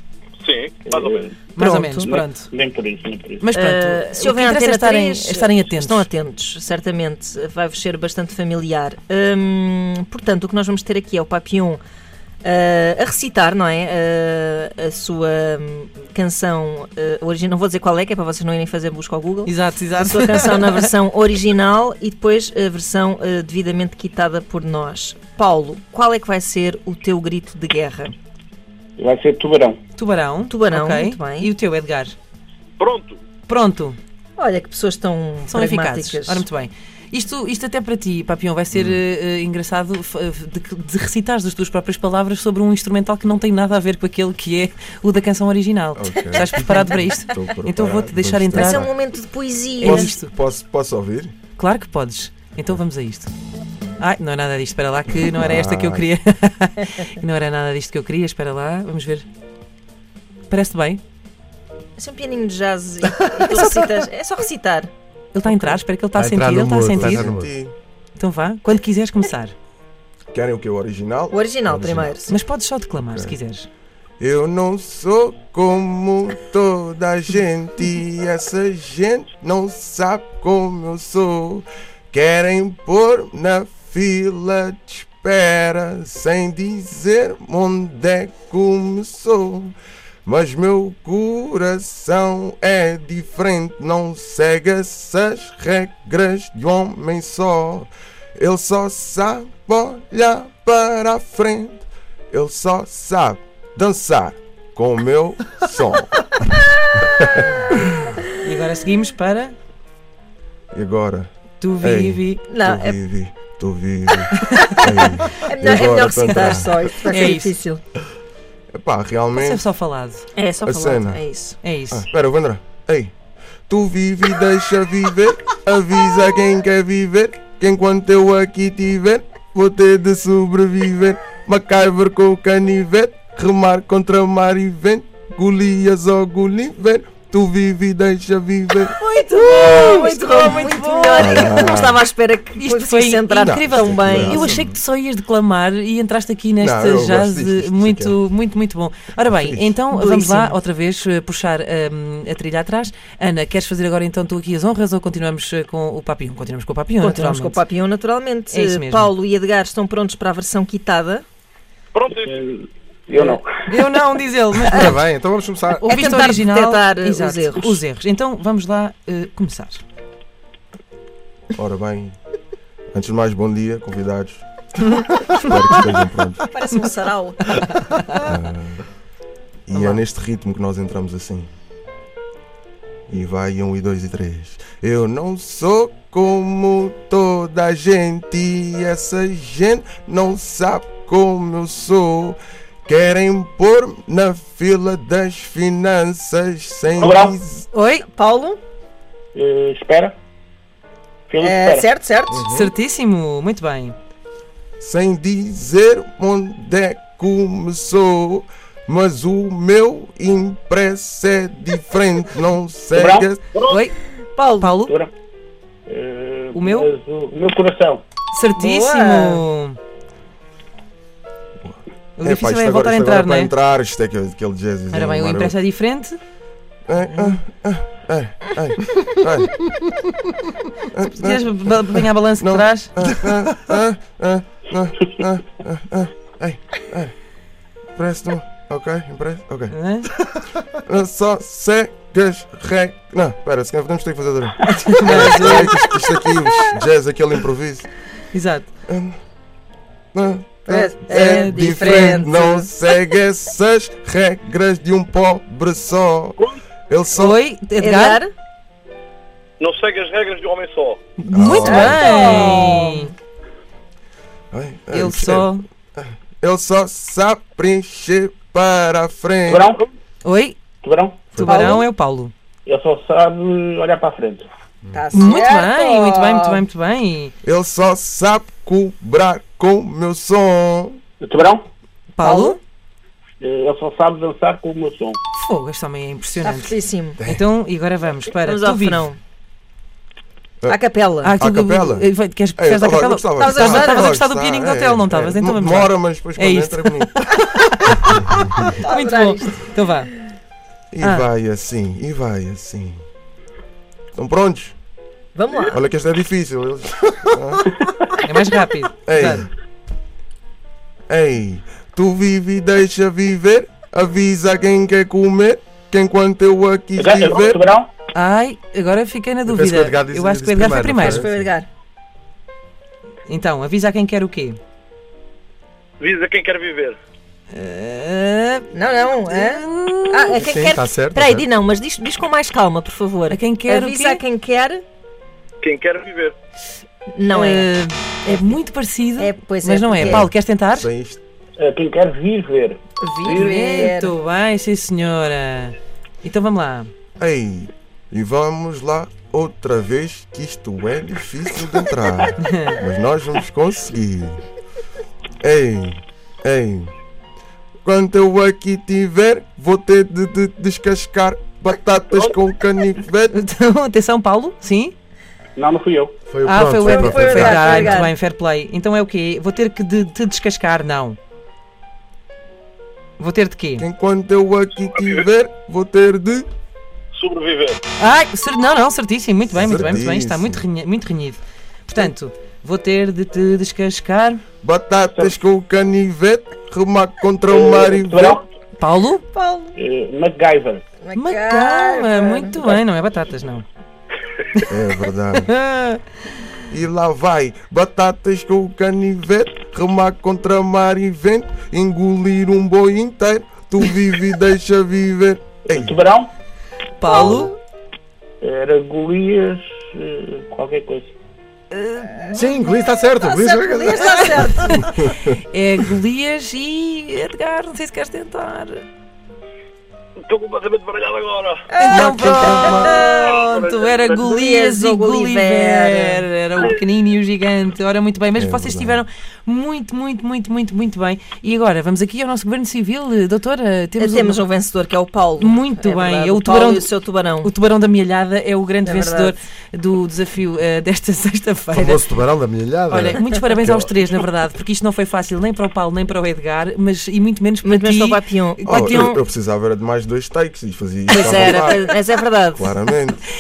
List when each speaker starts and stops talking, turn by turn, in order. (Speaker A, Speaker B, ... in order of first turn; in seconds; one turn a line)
Speaker A: 0.4-1.3
Speaker B: 0.8-1.4
Speaker C: 1.5-2.5
Speaker D: 1.6-2.1
Speaker B: 2.0-3.5
Speaker C: 3.4-6.1
Speaker D: 3.5-11.8
Speaker D: 12.4-28.1
Speaker C: 19.4-20.9
Speaker B: 29.0-29.8
Speaker C: 30.0-32.2
Speaker D: 30.5-31.5
Speaker A: 32.8-33.2
Speaker C: 33.5-34.0
Speaker D: 34.4-36.5
Speaker C: 35.5-48.9
Speaker E: 38.7-39.0
Speaker E: 46.0-49.0
Speaker D: 46.4-47.1
Speaker D: 48.5-50.1
Speaker C: 49.8-50.3
Speaker E: 49.8-51.3
Speaker C: 51.6-53.3
Speaker C: 54.0-59.2
Speaker E: 55.3-56.1
Speaker C: 60.5-61.0
Speaker D: 62.0-64.9
Speaker C: 63.4-64.1
Speaker C: 65.3-67.3
Speaker D: 65.5-65.8
Speaker F: 66.2-67.4
Speaker E: 66.8-67.7
Speaker C: 68.2-69.5
Speaker E: 70.3-72.2
Speaker D: 71.3-72.3
Speaker C: 72.3-73.7
Speaker E: 73.0-73.4
Speaker E: 74.2-89.7
Speaker E: 90.3-107.4
Speaker C: 107.6-109.5
Speaker E: 110.7-116.8
Speaker C: 111.6-112.4
Speaker D: 112.5-113.0
Speaker C: 114.4-115.0
Speaker D: 115.4-117.8
Speaker C: 117.0-117.5
Speaker E: 118.7-119.7
Speaker C: 119.4-120.3
Speaker D: 120.3-121.6
Speaker E: 120.6-121.2
Speaker C: 121.6-122.1
Speaker E: 121.9-123.1
Speaker E: 123.7-139.0
Speaker C: 139.0-141.7
Speaker D: 139.3-144.6
Speaker E: 141.2-142.0
Speaker C: 142.6-157.6
Speaker E: 143.3-144.6
Speaker E: 146.6-148.2
Speaker E: 149.3-149.7
Speaker D: 149.9-150.6
Speaker D: 157.0-161.2
Speaker C: 158.5-159.1
Speaker A: 161.9-162.3
Speaker B: 162.3-163.5
Speaker C: 163.2-165.0
Speaker F: 164.8-165.8
Speaker D: 165.8-167.8
Speaker C: 165.8-169.8
Speaker E: 171.5-172.2
Speaker E: 172.9-176.5
Speaker D: 176.5-177.9
Speaker C: 177.6-178.2
Speaker E: 178.3-178.8
Speaker E: 179.7-181.5
Speaker C: 179.7-180.0
Speaker E: 183.1-197.7
Speaker B: 197.0-197.4
Speaker C: 197.7-198.1
Speaker D: 198.1-198.6
Speaker B: 199.3-200.2
Speaker B: 201.3-201.9
Speaker D: 201.4-202.5
Speaker C: 202.5-204.0
Speaker E: 204.8-213.4
Speaker B: 212.9-213.3
Speaker A: 213.5-213.8
Speaker C: 213.7-214.0
Speaker D: 214.4-214.9
Speaker C: 214.6-214.9
Speaker B: 215.9-218.0
Speaker C: 216.5-216.9
Speaker C: 218.3-219.8
Speaker D: 218.6-219.4
Speaker E: 221.6-225.6
Speaker C: 222.2-223.5
Speaker C: 224.9-226.2
Speaker E: 226.9-229.7
Speaker E: 230.9-237.1
Speaker C: 231.1-232.9
Speaker E: 238.0-239.8
Speaker C: 239.7-240.1
Speaker E: 240.8-247.9
Speaker C: 244.7-245.8
Speaker C: 248.3-248.7
Speaker E: 248.9-249.2
Speaker E: 250.1-256.4
Speaker D: 250.7-252.7
Speaker C: 251.1-252.3
Speaker E: 256.9-257.4
Speaker C: 257.1-258.2
Speaker D: 257.8-258.3
Speaker A: 259.6-261.0
Speaker C: 261.2-263.1
Speaker E: 261.3-262.8
Speaker D: 261.4-263.1
Speaker E: 264.5-269.7
Speaker C: 264.9-265.6
Speaker B: 269.5-269.8
Speaker C: 270.2-270.6
Speaker B: 270.8-271.3
Speaker E: 271.3-271.8
Speaker C: 271.3-272.3
Speaker D: 271.4-271.9
Speaker B: 272.7-274.5
Speaker D: 274.9-276.6
Speaker C: 275.1-277.3
Speaker E: 277.4-281.0
Speaker B: 281.2-281.7
Speaker C: 282.1-282.6
Speaker D: 282.2-282.6
Speaker B: 283.4-285.2
Speaker C: 285.3-289.1
Speaker D: 286.4-287.2
Speaker E: 287.2-287.5
Speaker D: 288.4-289.2
Speaker D: 290.7-291.3
Speaker C: 291.2-300.1
Speaker E: 291.4-297.1
Speaker D: 293.4-294.1
Speaker D: 298.7-299.7
Speaker E: 300.9-303.0
Speaker C: 301.0-301.3
Speaker E: 304.1-304.8
Speaker D: 305.4-305.8
Speaker E: 305.7-307.7
Speaker C: 308.2-309.5
Speaker E: 309.1-309.5
Speaker E: 311.1-317.6
Speaker B: 317.0-317.9
Speaker C: 318.1-321.3
Speaker F: 319.5-321.3
Speaker D: 321.0-321.7
Speaker C: 323.3-324.6
Speaker A: 326.0-327.0
Speaker C: 327.5-330.4
Speaker D: 328.7-334.8
Speaker F: 330.4-331.4
Speaker C: 333.3-334.2
Speaker A: 335.6-336.4
Speaker D: 337.1-337.7
Speaker C: 337.3-340.9
Speaker D: 338.3-338.6
Speaker D: 339.2-340.3
Speaker E: 340.0-341.2
Speaker B: 341.6-343.7
Speaker D: 343.0-344.1
Speaker C: 343.2-346.9
Speaker E: 347.2-354.4
Speaker C: 352.4-352.8
Speaker E: 355.4-356.9
Speaker E: 357.9-363.4
Speaker C: 363.3-364.9
Speaker B: 365.6-366.2
Speaker F: 366.3-367.6
Speaker C: 366.4-371.2
Speaker D: 366.8-368.1
Speaker C: 373.2-373.9
Speaker E: 373.8-376.5
Speaker A: 375.0-375.2
Speaker A: 377.1-377.8
Speaker C: 378.0-384.4
Speaker E: 379.5-380.6
Speaker E: 384.6-388.4
Speaker B: 387.5-388.4
Speaker C: 388.8-389.2
Speaker D: 389.3-389.7
Speaker B: 389.8-390.8
Speaker D: 391.0-392.6
Speaker C: 391.1-393.6
Speaker E: 394.7-395.5
Speaker C: 395.5-396.0
Speaker E: 396.7-405.9
Speaker B: 405.7-406.3
Speaker C: 407.0-407.5
Speaker D: 407.1-407.5
Speaker B: 408.4-411.1
Speaker C: 411.7-412.5
Speaker F: 412.4-414.4
Speaker D: 413.1-415.1
Speaker C: 413.9-418.8
Speaker A: 420.2-421.8
Speaker D: 421.7-423.3
Speaker C: 421.8-434.4
Speaker E: 422.0-423.0
Speaker A: 422.9-424.3
Speaker D: 424.2-426.3
Speaker E: 428.4-429.0
Speaker D: 434.0-437.5
Speaker C: 435.4-442.2
Speaker D: 438.9-439.3
Speaker F: 441.8-443.0
Speaker C: 442.9-449.1
Speaker D: 447.6-449.2
Speaker E: 448.6-451.9
Speaker D: 451.1-452.8
Speaker C: 451.1-451.9
Speaker E: 452.5-453.2